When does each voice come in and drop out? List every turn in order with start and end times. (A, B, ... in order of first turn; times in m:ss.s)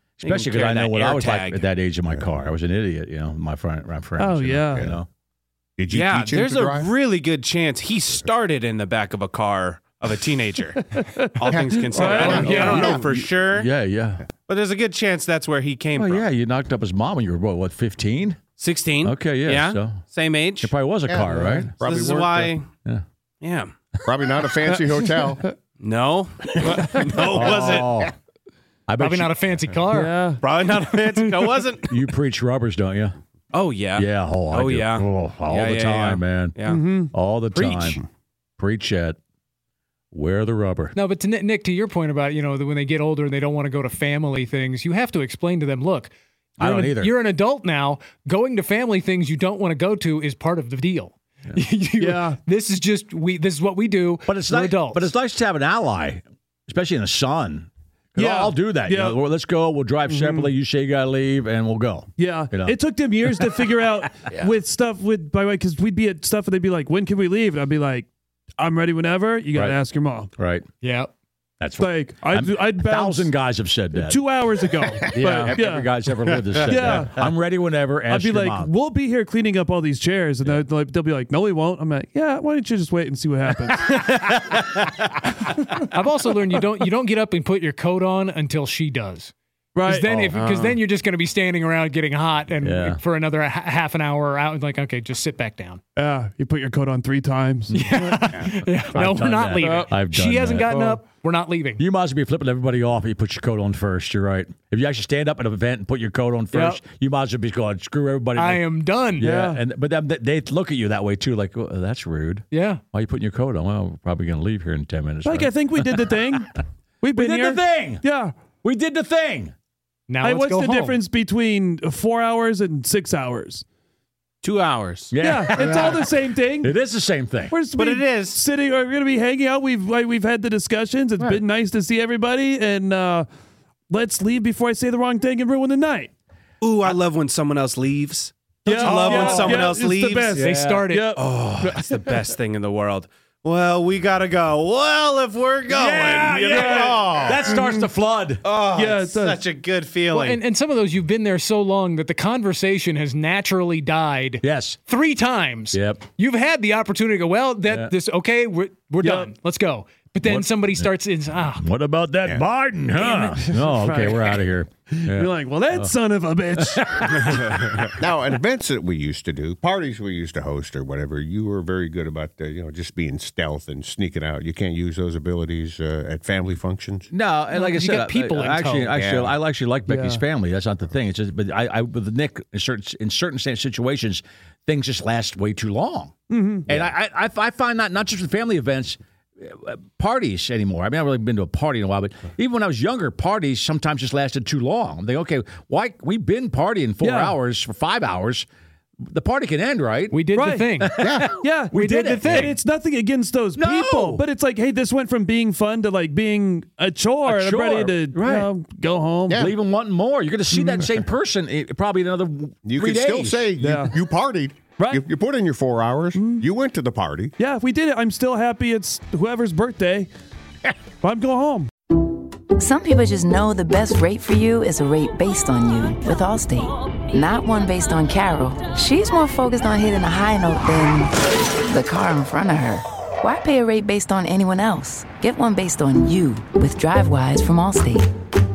0:00.2-0:05.1 A
0:00.2-0:01.7 B
0:02.1-0:02.3 C
0:04.2-0:05.0 D
0:05.8-0:06.9 C
0:05.9-0:10.8 B
0:10.9-0:12.7 D
0:11.4-0:13.7 B
0:11.5-0:13.0 C
0:12.2-0:14.2 A
0:12.2-0:13.0 E
0:14.5-0:16.2 B
0:15.9-0:18.4 A
0:18.6-0:20.7 B
0:19.0-0:20.0 A
0:20.6-0:21.7 A
0:21.0-0:22.6 C
0:21.8-0:22.7 B
0:23.4-0:23.7 B
0:24.0-0:25.4 C
0:25.0-0:25.5 D
0:25.8-0:28.0 B
0:26.8-0:28.1 A
0:27.2-0:27.8 C
0:28.9-0:29.7 A
0:29.0-0:30.2 E
0:29.9-0:30.4 D
0:30.4-0:31.9 B
0:31.9-0:33.2 A
0:33.5-0:36.8 B
0:33.9-0:38.0 A
0:36.7-0:37.1 D
0:37.5-0:38.0 B
0:38.6-0:39.2 A
0:40.1-0:40.9 A
0:40.9-0:55.1 E
0:46.6-0:47.2 A
0:52.0-0:52.4 D
0:54.2-1:04.5 A
0:58.2-0:59.2 D
1:00.0-1:00.5 D
1:02.2-1:08.1 D
1:08.6-1:10.3 D
1:09.5-1:09.8 A
1:10.4-1:10.6 A
1:10.8-1:11.1 E
1:11.6-1:14.2 A
1:11.8-1:13.4 D
1:13.9-1:16.0 D
1:15.0-1:18.7 A
1:16.6-1:17.3 D
1:18.1-1:24.0 D
1:25.9-1:29.3 E
1:29.7-1:30.5 D
1:29.8-1:35.8 E
1:30.3-1:30.8 B
1:32.6-1:33.0 A
1:36.0-1:38.2 D
1:37.7-1:41.8 E
1:38.9-1:41.0 A
1:39.6-1:39.9 D
1:41.8-1:48.6 A
1:46.5-1:46.8 E
1:48.3-1:49.3 E
1:49.2-1:56.4 A
1:49.2-1:49.6 D
1:52.5-1:52.8 E
1:55.2-1:56.5 D
1:57.0-1:58.3 D
1:57.1-1:58.0 A
1:58.6-1:59.5 A
2:00.1-2:01.0 E
2:00.2-2:03.6 D
2:04.4-2:05.1 B
2:05.1-2:07.5 A
2:05.2-2:06.8 D
2:07.5-2:13.3 D
2:07.7-2:08.4 B
2:13.9-2:16.1 D
2:16.6-2:20.4 B
2:18.6-2:22.1 D
2:18.7-2:19.8 A
2:20.3-2:20.9 A
2:20.4-2:21.1 E
2:21.1-2:27.5 B
2:25.7-2:28.4 A
2:26.5-2:27.9 D
2:28.4-2:30.4 B
2:28.7-2:29.5 D
2:30.1-2:41.6 E
2:34.4-2:34.8 A
2:35.7-2:36.0 A
2:37.7-2:37.9 A
2:39.0-2:39.3 D
2:40.2-2:45.9 A
2:43.1-2:47.2 D
2:46.6-2:48.0 A
2:48.0-2:57.1 C
2:57.1-3:06.1 A
2:57.5-2:59.0 E
2:58.9-2:59.4 C
2:59.9-3:00.2 D
3:06.3-3:06.7 D
3:06.7-3:18.5 A
3:17.0-3:17.4 D
3:19.0-3:20.2 A
3:20.1-3:21.0 E
3:20.3-3:20.7 D
3:20.8-3:22.6 A
3:21.0-3:21.3 C
3:21.3-3:29.5 D
3:21.7-3:22.6 E
3:23.6-3:24.2 A
3:27.2-3:28.5 A
3:29.3-3:33.5 A
3:30.6-3:30.9 C
3:32.6-3:37.3 C
3:33.6-3:34.0 D
3:34.8-3:35.1 D
3:36.1-3:36.5 D
3:37.4-3:40.1 D
3:41.0-3:41.7 D
3:42.6-3:51.1 F
3:51.7-3:58.0 F